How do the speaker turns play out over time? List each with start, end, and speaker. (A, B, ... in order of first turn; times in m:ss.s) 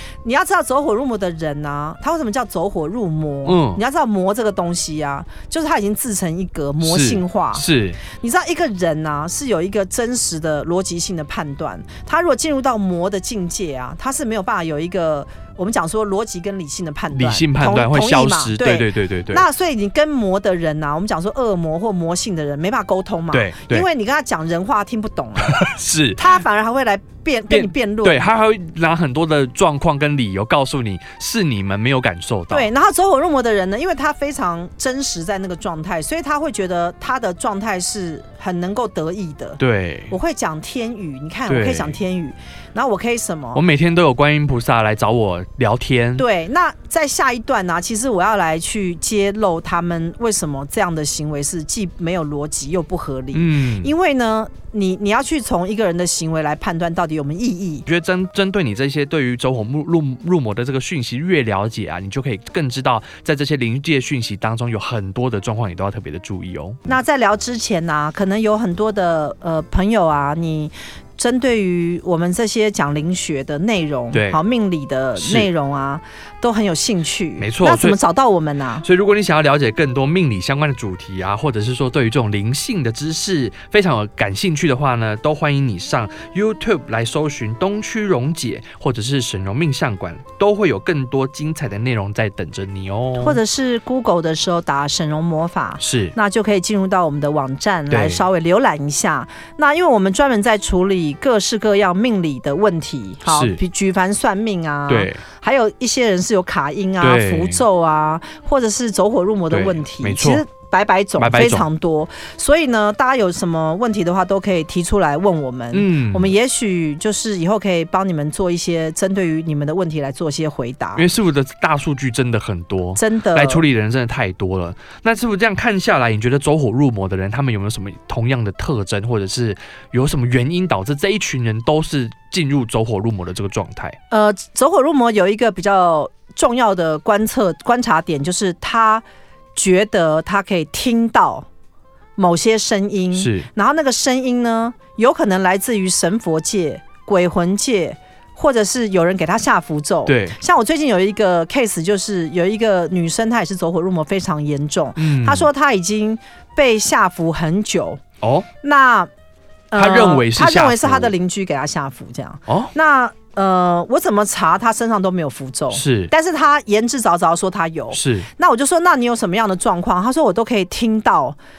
0:00.2-0:28.3 A
0:03.4-0:03.8 B
0:06.8-0:08.0 B
0:17.1-0:19.4 B
0:23.3-0:23.8 B
0:25.4-0:26.2 B
0:27.5-0:32.7 B
0:32.5-0:43.6 A
0:39.6-0:40.1 B
0:41.5-0:42.0 B
0:43.5-0:46.2 B
0:46.2-0:57.8 A
0:53.3-0:53.9 B
0:57.8-1:06.9 B
1:06.9-1:18.8 A
1:14.1-1:14.4 B
1:15.2-1:15.5 B
1:17.4-1:18.0 B
1:18.8-1:33.4 B
1:33.2-2:01.0 A
1:35.8-1:36.1 B
1:37.9-1:38.2 B
1:43.2-1:43.6 B
1:44.9-1:45.2 B
1:47.0-1:47.6 B
1:49.5-1:50.4 B
1:51.2-1:51.7 B
1:55.7-1:56.3 B
2:00.9-2:14.0 B
2:03.0-2:03.6 A
2:14.1-2:19.0 A
2:19.6-2:21.4 A
2:22.2-2:38.0 A
2:23.1-2:23.5 B
2:30.0-2:30.4 B
2:35.0-2:35.5 B
2:38.2-2:38.5 B
2:38.6-2:39.1 A
2:39.7-2:51.4 A
2:39.7-2:41.1 B
2:45.7-2:46.1 B
2:47.9-2:48.3 B